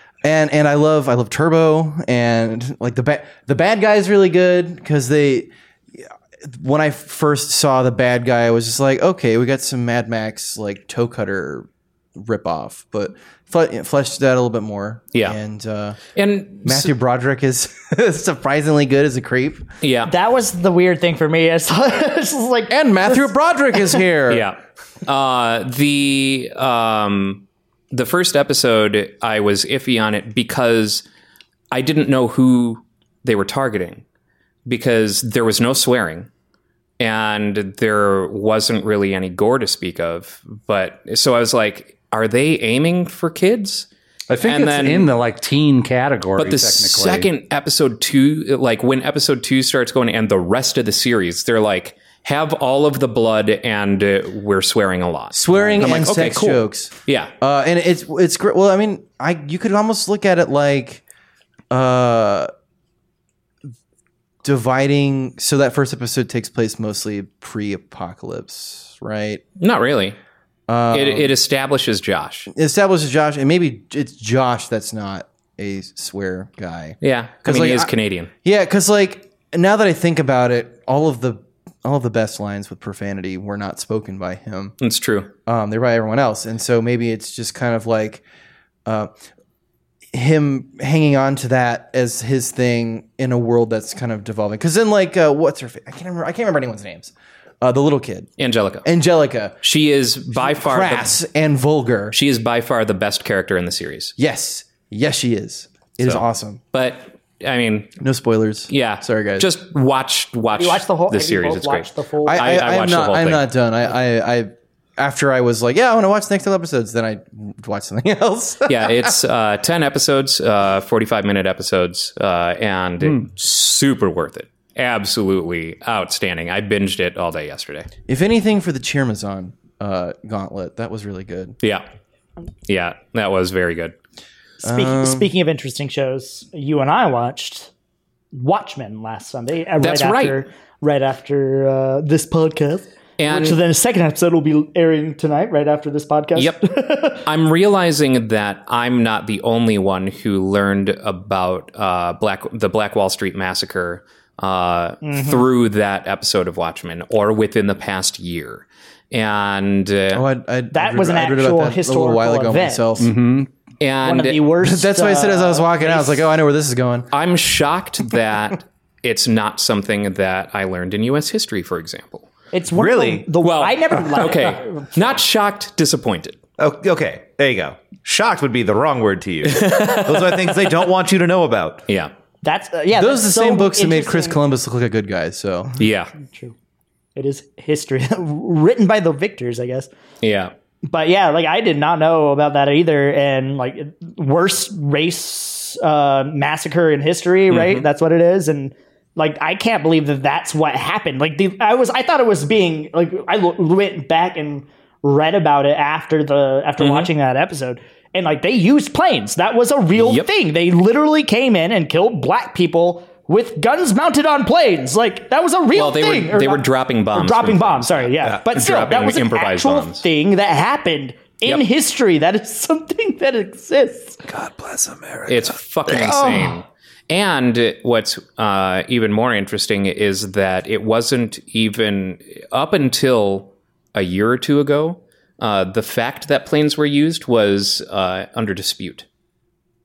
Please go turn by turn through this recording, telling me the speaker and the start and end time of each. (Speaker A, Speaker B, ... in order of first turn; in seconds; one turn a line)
Speaker A: 0.2-16.0
Speaker B: 16.1-16.9
Speaker A: 16.6-19.6
Speaker B: 19.8-20.1
Speaker C: 20.1-23.3
Speaker A: 22.7-24.5
Speaker B: 24.3-31.1
Speaker B: 31.7-34.0
Speaker B: 34.7-36.3
Speaker B: 37.0-43.9
Speaker D: 44.3-47.3
Speaker B: 44.4-45.1
Speaker B: 46.4-57.3
Speaker A: 55.3-61.0
Speaker A: 61.7-62.5
Speaker A: 64.4-69.4
Speaker B: 69.6-70.2
Speaker A: 70.7-71.3
Speaker B: 70.9-72.5
Speaker A: 72.5-77.9
Speaker B: 77.0-78.3
Speaker A: 78.4-84.8
Speaker B: 84.8-85.3
Speaker A: 85.5-88.2
Speaker A: 88.9-89.1
Speaker A: 90.1-98.3
Speaker B: 98.4-98.9
Speaker A: 98.8-99.6
Speaker B: 99.6-101.2
Speaker A: 100.3-102.2
Speaker B: 102.1-104.1
Speaker A: 104.2-106.6
Speaker B: 106.0-107.9
Speaker A: 108.0-109.5
Speaker B: 108.7-113.5
Speaker C: 110.6-112.5
Speaker A: 112.2-119.2
Speaker B: 118.7-127.9
Speaker A: 128.1-131.6
Speaker B: 132.7-133.9
Speaker C: 134.6-137.7
Speaker A: 134.6-135.3
Speaker C: 138.3-147.2
Speaker B: 139.8-140.4
Speaker B: 143.2-143.6
Speaker B: 146.4-146.6
Speaker B: 147.2-160.3
Speaker C: 155.0-155.5
Speaker A: 160.1-163.1
Speaker C: 160.7-162.9
Speaker D: 163.0-163.5
Speaker B: 163.8-164.4
Speaker C: 164.0-166.3
Speaker A: 164.6-167.1
Speaker B: 167.1-172.3
Speaker C: 172.5-174.9
Speaker E: 172.7-173.3
Speaker B: 173.4-176.4
Speaker E: 176.6-181.8
Speaker B: 179.5-180.6
Speaker C: 182.4-184.4
Speaker A: 182.9-185.7
Speaker B: 185.8-186.1
Speaker C: 186.2-186.6
Speaker C: 187.2-189.9
Speaker B: 190.2-190.5
Speaker C: 190.9-224.2
Speaker B: 197.5-197.9
Speaker B: 206.8-207.1
Speaker B: 210.0-210.3
Speaker B: 215.7-220.1
Speaker E: 224.3-226.2
Speaker B: 225.3-239.1
Speaker C: 225.9-226.6